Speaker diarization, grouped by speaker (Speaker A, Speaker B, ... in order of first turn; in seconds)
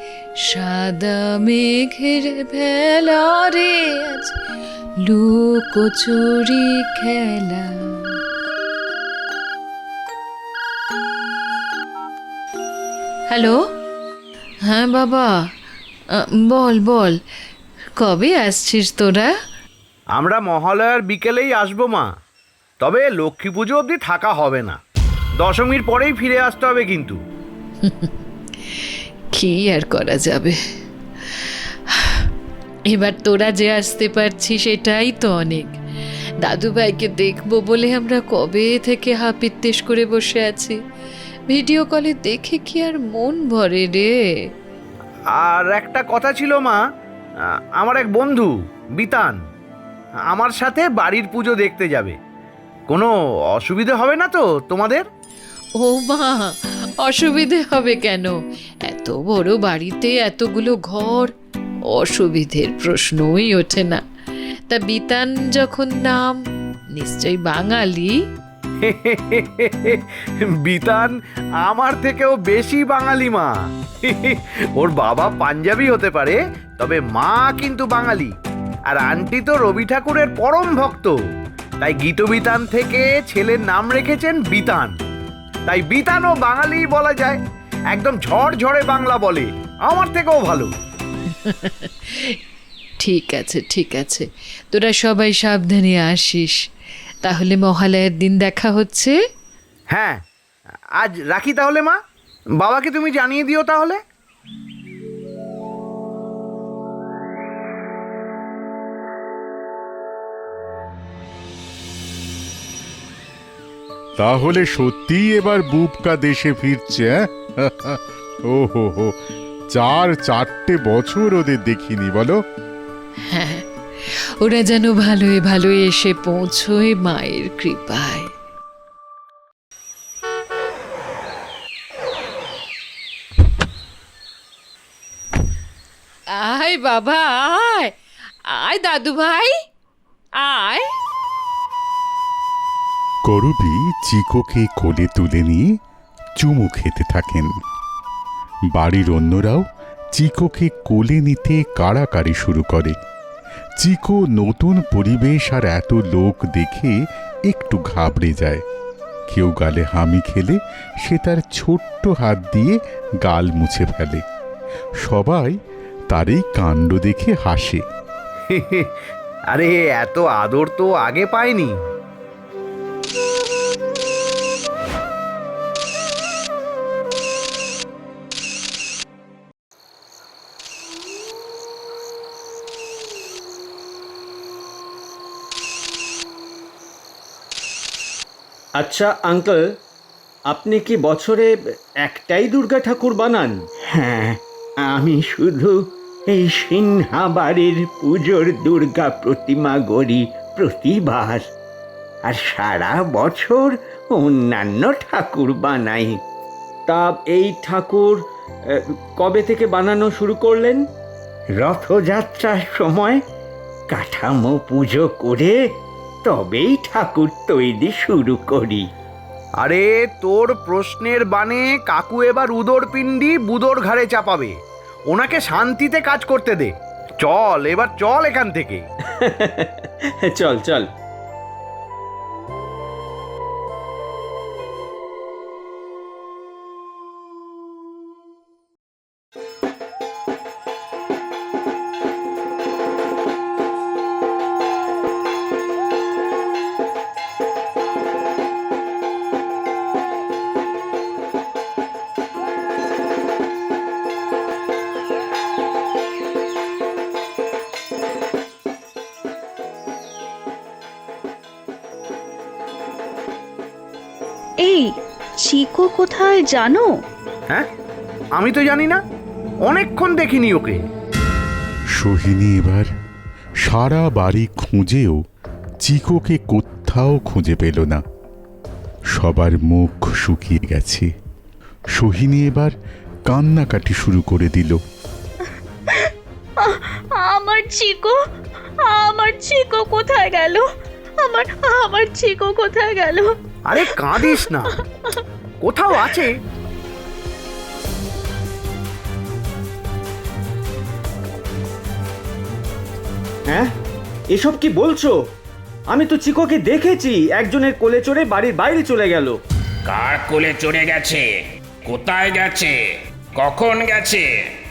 Speaker A: 0.4-4.3, 5.0-8.2, 13.3-13.6, 14.7-15.3, 16.1-17.2, 18.0-19.3, 27.8-28.1, 29.4-30.6, 32.9-35.7, 36.4-40.8, 41.5-44.1, 55.8-58.3, 58.9-61.3, 61.9-64.0, 64.7-66.4, 67.0-68.2, 91.4-92.3, 93.0-96.6, 97.2-99.2, 123.3-123.7, 124.4-128.3, 136.3-137.9, 138.5-139.5, 140.4-140.9
Speaker B: 20.2-22.1, 22.8-24.8, 25.4-27.2, 45.4-46.8, 47.8-49.4, 50.3-52.1, 52.9-55.0, 68.8-70.0, 70.6-71.1, 71.7-73.5, 74.0-78.3, 78.9-81.2, 81.8-84.9, 85.7-87.4, 87.9-90.7, 99.9-100.2, 101.0-102.0, 102.6-104.0, 168.5-168.9, 169.5-171.7, 219.6-224.5, 225.1-228.8, 268.4-269.0, 269.7-270.8, 293.7-294.7, 295.6-296.3
Speaker C: 114.2-117.1, 117.7-118.0, 118.5-119.1, 119.8-122.4, 143.3-145.7, 146.4-147.5, 148.7-149.6, 150.2-152.9, 153.8-157.0, 157.5-158.6, 159.3-164.2, 165.0-165.6, 166.1-167.8, 272.0-272.9, 273.6-275.2, 275.8-278.0, 279.1-281.1, 282.0-282.7, 283.3-284.8
Speaker D: 188.8-189.6, 190.5-191.5, 192.0-194.4, 194.9-195.8, 196.3-201.4, 202.3-206.2, 206.9-208.2, 209.2-210.8, 211.6-213.2, 213.9-215.6, 216.2-218.9, 229.2-230.9, 304.3-305.2, 305.9-309.4
Speaker E: 265.4-266.9, 286.6-288.2, 288.8-290.6, 291.2-294.8
Speaker F: 309.9-311.3, 311.9-312.8, 313.4-314.3